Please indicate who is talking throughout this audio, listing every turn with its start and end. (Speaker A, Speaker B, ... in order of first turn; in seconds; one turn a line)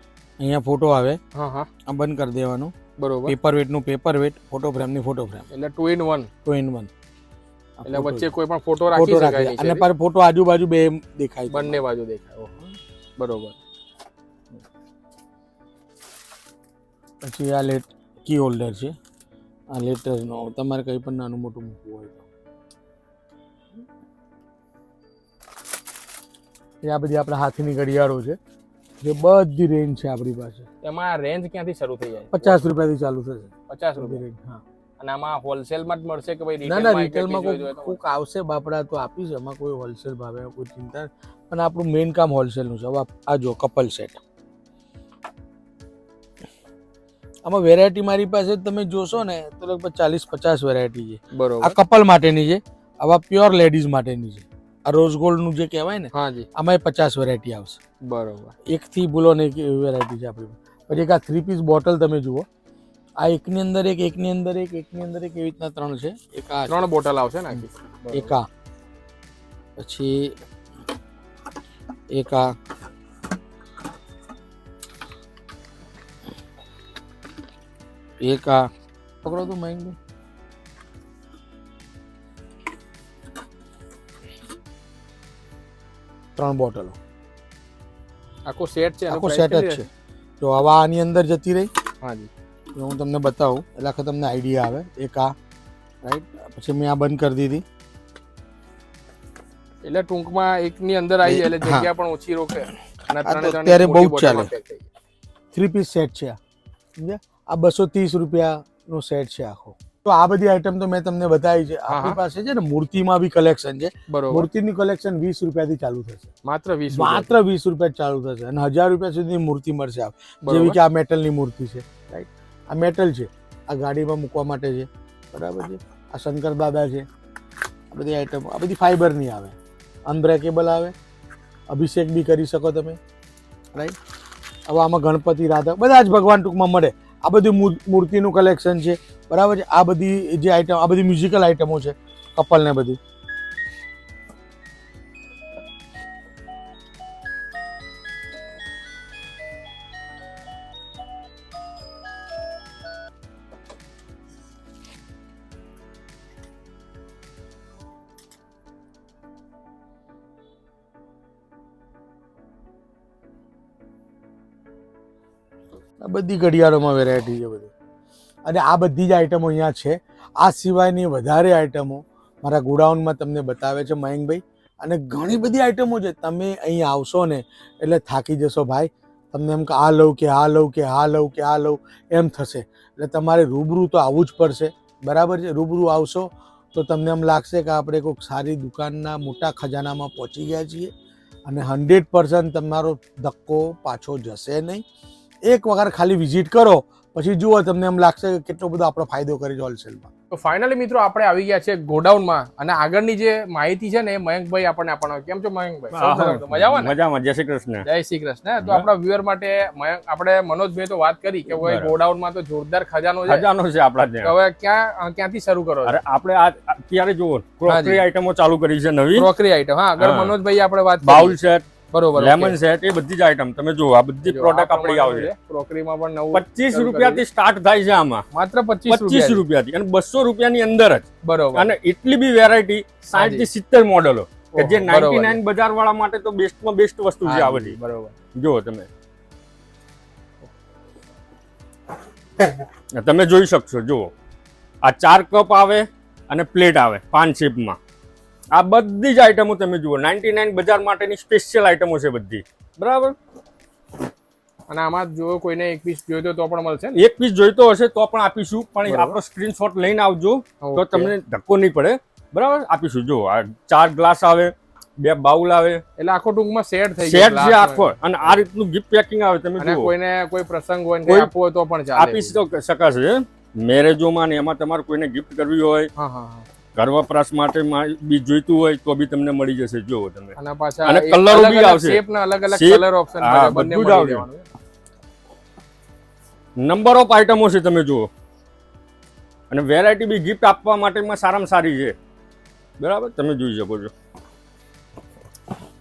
Speaker A: 0.4-1.2
Speaker B: 1.4-1.7
Speaker A: 1.9-2.7
Speaker B: 3.0-3.3
Speaker A: 3.3-5.5
Speaker B: 5.5-6.3
Speaker A: 6.5-6.9
Speaker A: 7.8-8.3
Speaker B: 7.9-9.9
Speaker A: 8.9-11.8
Speaker B: 11.5-12.5
Speaker B: 13.2-13.6
Speaker A: 17.2-18.9
Speaker A: 19.7-22.3
Speaker A: 26.8-28.4
Speaker A: 29.0-30.7
Speaker B: 30.8-32.6
Speaker A: 32.3-34.6
Speaker B: 33.7-34.2
Speaker B: 35.0-38.0
Speaker A: 36.6-44.2
Speaker A: 47.5-57.8
Speaker B: 51.3-51.8
Speaker B: 56.1-56.5
Speaker B: 58.1-58.5
Speaker A: 58.7-62.5
Speaker A: 63.2-66.8
Speaker B: 66.7-68.3
Speaker A: 67.5-68.5
Speaker A: 69.8-70.4
Speaker A: 72.1-72.5
Speaker A: 78.2-78.7
Speaker A: 79.2-80.0
Speaker A: 86.4-87.0
Speaker B: 88.5-89.8
Speaker A: 89.1-89.9
Speaker A: 90.4-91.7
Speaker B: 92.0-92.3
Speaker A: 92.8-95.3
Speaker A: 96.0-97.6
Speaker B: 99.8-104.8
Speaker A: 101.2-101.9
Speaker A: 103.2-104.5
Speaker A: 105.5-106.4
Speaker A: 107.0-116.3
Speaker B: 111.9-112.2
Speaker B: 114.1-114.5
Speaker B: 116.5-117.3
Speaker A: 116.9-127.0
Speaker B: 120.5-120.8
Speaker A: 127.9-129.6
Speaker A: 130.1-130.9
Speaker A: 131.7-133.0
Speaker A: 134.7-143.0
Speaker A: 166.0-167.7
Speaker A: 168.5-190.9
Speaker A: 191.5-194.8
Speaker A: 195.5-200.1
Speaker B: 200.3-206.9
Speaker C: 205.9-207.8
Speaker B: 207.9-213.5
Speaker C: 208.6-208.9
Speaker C: 211.5-212.0
Speaker C: 213.3-214.3
Speaker B: 214.2-216.0
Speaker C: 215.8-219.3
Speaker B: 217.7-218.0
Speaker B: 219.2-221.4
Speaker C: 220.0-220.4
Speaker C: 221.0-225.3
Speaker B: 221.9-222.6
Speaker B: 224.3-227.2
Speaker C: 226.3-228.2
Speaker B: 228.3-229.4
Speaker C: 228.9-237.8
Speaker B: 231.2-231.7
Speaker B: 233.2-233.4
Speaker B: 234.6-235.4
Speaker B: 237.3-238.1
Speaker C: 238.4-238.9
Speaker C: 242.9-244.1
Speaker C: 244.8-247.8
Speaker C: 248.6-253.2
Speaker B: 254.7-257.0
Speaker C: 257.0-265.8
Speaker B: 258.9-259.1
Speaker B: 260.6-261.1
Speaker B: 266.0-267.9
Speaker C: 267.0-269.9
Speaker B: 269.6-272.4
Speaker C: 271.1-271.3
Speaker C: 272.0-275.9
Speaker B: 276.0-276.5
Speaker C: 276.8-284.3
Speaker B: 280.4-284.4
Speaker C: 286.6-288.1
Speaker C: 289.5-291.9
Speaker C: 292.8-293.9